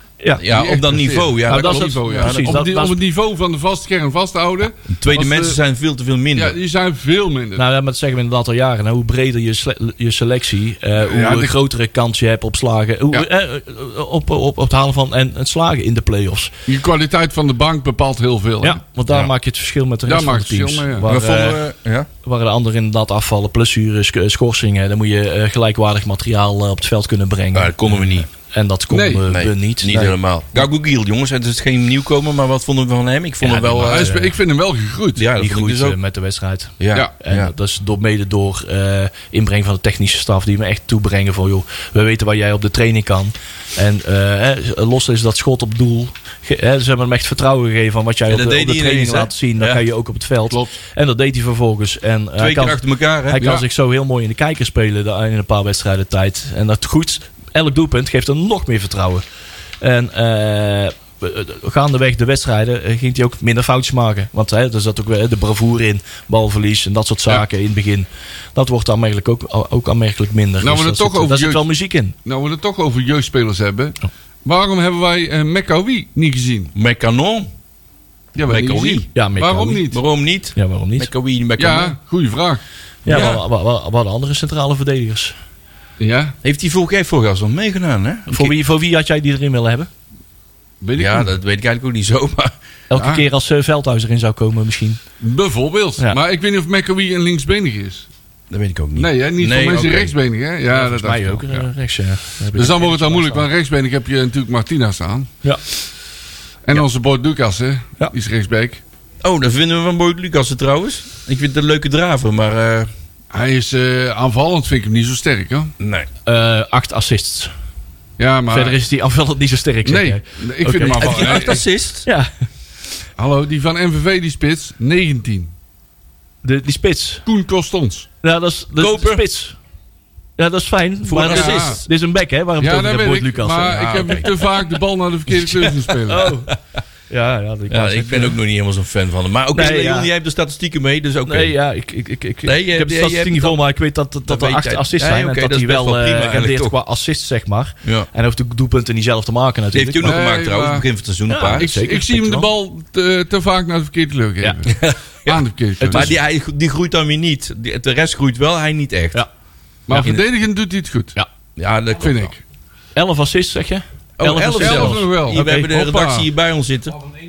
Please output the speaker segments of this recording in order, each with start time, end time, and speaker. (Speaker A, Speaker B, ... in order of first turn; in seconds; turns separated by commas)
Speaker A: 0.2-0.5, Speaker B: 0.4-2.6, Speaker C: 0.5-5.6, Speaker A: 1.5-3.0, Speaker B: 4.9-6.6, Speaker C: 6.4-7.6, Speaker A: 7.6-16.5, Speaker C: 11.0-11.6, Speaker C: 16.7-18.8, Speaker A: 18.6-21.6, Speaker C: 20.1-21.1, Speaker B: 21.1-22.1, Speaker A: 22.2-30.2, Speaker B: 27.5-28.3, Speaker C: 28.9-29.3, Speaker B: 29.3-34.1, Speaker A: 33.4-34.3, Speaker C: 33.8-35.3, Speaker B: 35.1-36.0, Speaker A: 35.4-59.2, Speaker B: 36.8-37.5, Speaker B: 48.3-49.8, Speaker B: 52.4-53.5, Speaker C: 53.4-53.6, Speaker A: 59.8-72.1, Speaker C: 70.6-71.7, Speaker C: 72.2-76.7, Speaker B: 76.8-77.5, Speaker C: 78.3-80.0, Speaker B: 78.5-79.1, Speaker A: 79.1-79.9, Speaker B: 79.9-82.0, Speaker A: 80.5-81.1, Speaker C: 81.6-82.6, Speaker A: 83.0-85.3, Speaker B: 83.1-83.4, Speaker C: 86.0-86.4, Speaker B: 86.4-88.6, Speaker A: 88.3-89.9, Speaker C: 90.8-91.3, Speaker B: 91.0-92.5, Speaker A: 92.9-95.0, Speaker C: 93.0-93.2, Speaker C: 95.2-98.1, Speaker B: 98.5-100.1, Speaker C: 99.0-101.7, Speaker A: 100.7-103.5, Speaker C: 102.6-105.3, Speaker C: 106.7-108.8, Speaker B: 109.2-112.9, Speaker C: 113.3-115.7, Speaker B: 115.8-116.1, Speaker A: 116.3-117.5, Speaker C: 118.2-118.8, Speaker A: 118.5-122.3, Speaker C: 119.8-121.6, Speaker B: 120.9-122.1, Speaker C: 123.2-125.5, Speaker A: 126.4-127.2, Speaker C: 127.3-128.1, Speaker A: 128.2-129.6, Speaker B: 128.8-129.2, Speaker A: 130.4-134.3, Speaker B: 131.0-131.9, Speaker C: 131.2-131.8, Speaker C: 132.6-136.3, Speaker B: 133.7-134.3, Speaker B: 135.5-135.8, Speaker A: 136.1-136.5, Speaker A: 137.1-138.4, Speaker B: 137.7-141.6, Speaker A: 139.5-140.1, Speaker A: 141.3-150.2, Speaker B: 142.4-143.6, Speaker B: 144.3-146.8, Speaker B: 149.7-151.7, Speaker C: 150.1-150.9, Speaker A: 151.3-152.5, Speaker C: 151.4-156.1, Speaker B: 154.7-155.0, Speaker A: 155.3-156.2, Speaker B: 155.9-159.2, Speaker C: 159.9-161.2, Speaker A: 159.9-160.2, Speaker B: 161.6-162.3, Speaker C: 162.0-162.4, Speaker A: 162.9-165.7, Speaker B: 164.2-167.0, Speaker C: 164.6-166.3